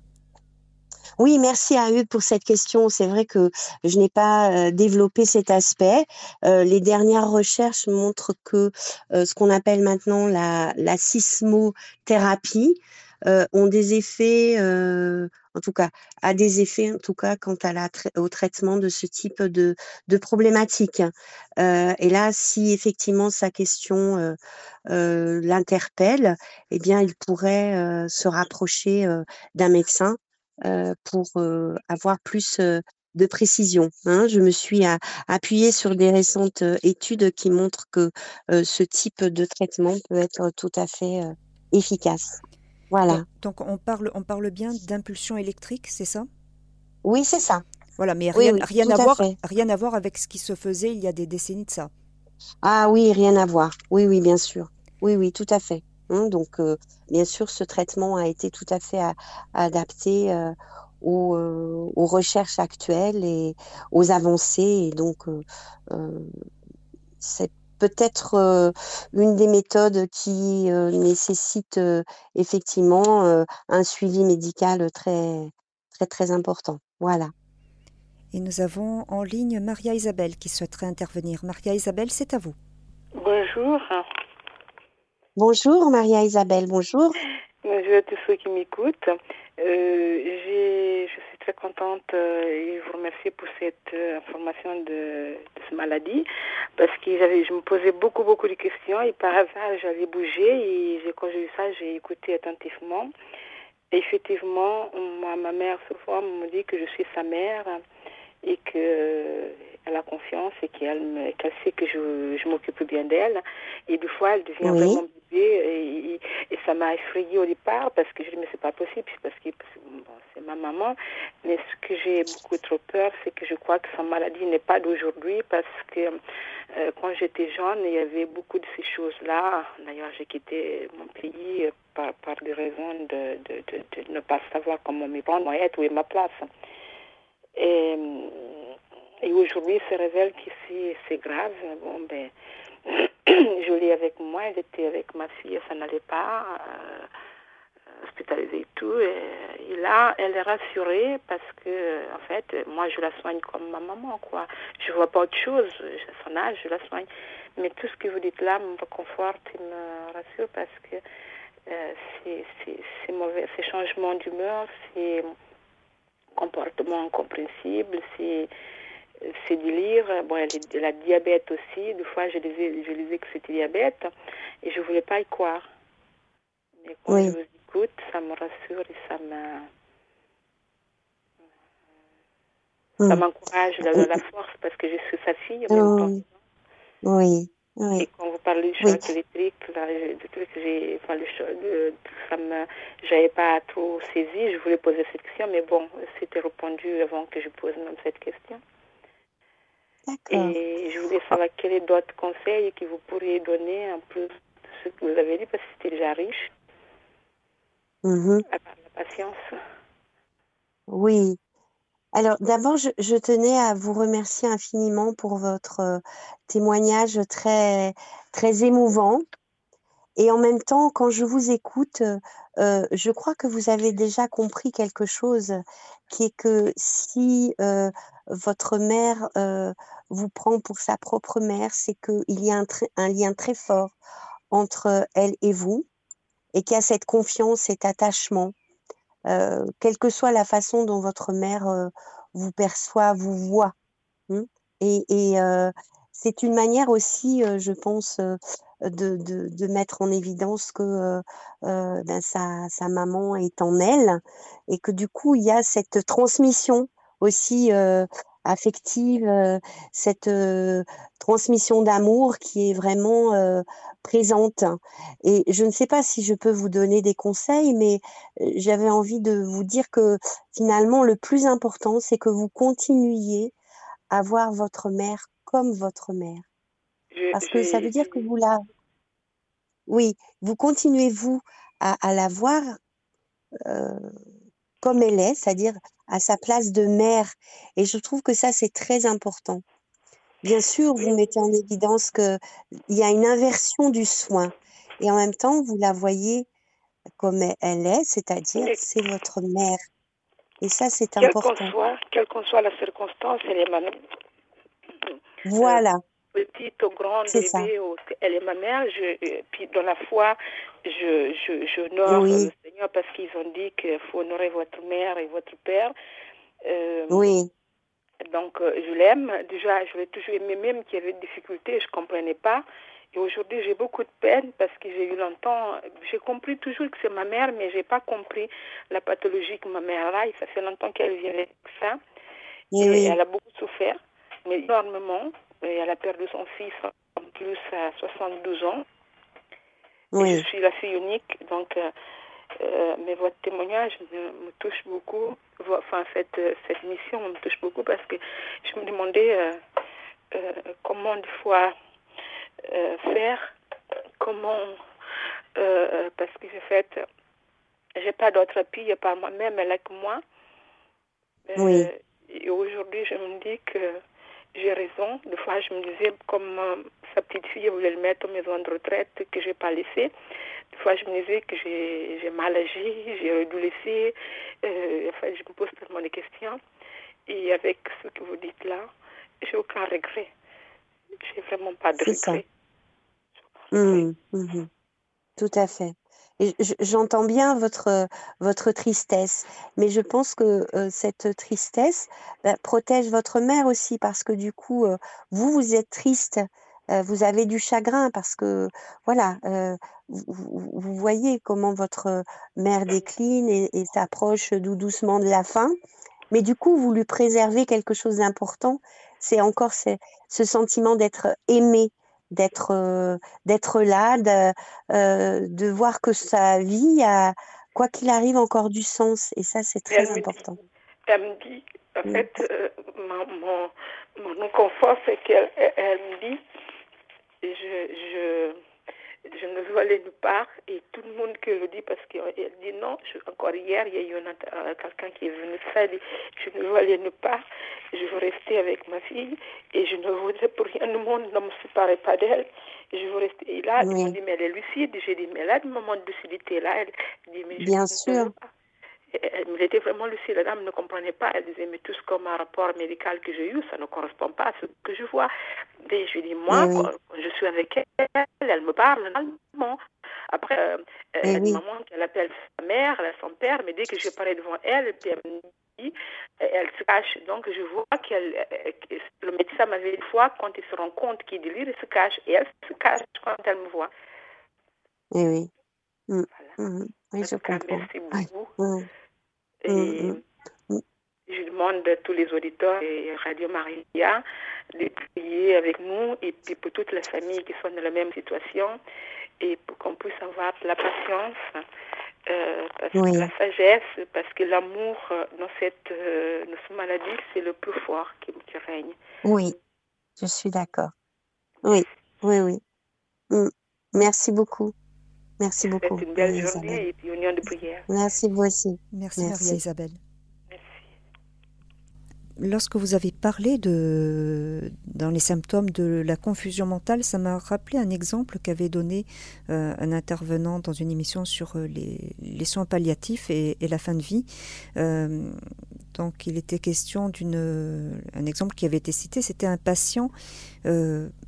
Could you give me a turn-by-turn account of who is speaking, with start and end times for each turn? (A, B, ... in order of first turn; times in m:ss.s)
0:01.2-0:24.4 A
0:24.9-0:42.4 A
0:42.9-0:43.2 A
0:43.1-0:46.3 B
0:47.0-0:47.6 A
0:48.0-0:51.9 B
0:48.3-0:49.3 A
0:52.6-1:06.3 A
1:07.2-1:17.3 A
1:18.3-1:22.6 B
1:23.2-1:24.0 C
1:25.4-1:27.2 A
1:27.6-1:43.1 C
1:43.9-1:47.8 C
1:48.4-2:06.2 C
1:54.6-1:55.0 A
2:06.7-2:16.5 C
2:17.6-2:22.3 C
2:22.8-2:27.1 C
2:28.0-2:41.0 C
2:41.7-2:45.3 C
2:46.4-2:48.5 C
2:49.2-2:54.1 C
2:54.6-2:55.6 C
2:56.8-2:59.7 C
2:57.1-2:57.4 A
3:03.1-3:06.2 C
3:03.8-3:04.2 A
3:05.7-3:06.2 A
3:07.0-3:08.0 A
3:08.0-3:18.6 C
3:08.8-3:09.0 A
3:20.1-3:20.6 A
3:20.3-3:26.5 C
3:28.0-3:28.4 A
3:28.5-3:29.6 C
3:30.9-3:31.4 A
3:32.1-3:39.2 A
3:40.2-3:45.6 A
3:46.1-3:53.9 A
3:54.5-3:55.9 A
3:56.5-3:58.5 A
3:59.3-4:03.7 A
4:04.3-4:33.5 A
4:34.1-4:36.4 A
4:37.1-4:38.2 C
4:37.3-4:38.6 A
4:39.9-4:42.8 A
4:43.6-4:44.1 A
4:44.8-4:49.6 A
4:50.4-4:56.5 A
4:51.0-4:51.3 C
4:57.2-4:59.8 A
5:00.6-5:01.7 A
5:01.2-5:03.9 C
5:05.4-5:06.0 A
5:06.3-5:15.9 C
5:07.3-5:07.7 A
5:12.1-5:12.5 A
5:16.6-5:17.3 C
5:17.1-5:17.5 A
5:18.2-5:32.0 C
5:32.7-5:33.2 A
5:32.8-5:38.8 C
5:40.1-5:40.4 A
5:40.2-5:41.9 C
5:42.6-5:49.6 C
5:50.3-5:51.7 C
5:52.6-5:53.5 C
5:54.2-5:54.8 C
5:55.6-5:57.0 C
5:58.0-6:00.2 C
6:01.5-6:04.0 C
6:01.6-6:01.9 A
6:04.5-6:10.1 C
6:10.7-6:16.6 C
6:17.3-6:18.9 C
6:19.4-6:20.3 C
6:21.2-6:22.4 C
6:22.0-6:22.4 A
6:23.6-6:24.0 C
6:23.7-6:24.7 A
6:25.4-6:45.7 A
6:46.3-7:00.6 A
6:59.9-7:00.6 C
7:01.1-7:06.4 C
7:07.4-7:08.6 C
7:09.3-7:28.5 C
7:23.8-7:24.2 A
7:27.6-7:28.3 A
7:29.1-7:35.3 C
7:35.8-7:39.8 C
7:36.5-7:36.9 A
7:40.3-7:53.9 C
7:41.2-7:41.6 A
7:55.1-7:55.5 A
7:56.1-7:58.8 A
7:56.3-7:56.6 C
7:57.2-7:58.6 C
7:59.6-8:00.2 C
7:59.7-8:00.2 A
8:01.3-8:08.8 C
8:09.4-8:11.6 C
8:12.3-8:19.0 C
8:12.9-8:13.3 A
8:19.2-8:19.5 A
8:20.2-8:20.9 A
8:21.6-8:22.6 A
8:23.3-8:24.7 A
8:25.4-8:26.8 A
8:25.7-8:27.9 C
8:27.9-8:29.6 A
8:28.9-8:30.0 B
8:30.5-8:30.9 C
8:32.4-8:45.4 B
8:45.9-8:50.1 B
8:50.6-8:51.1 B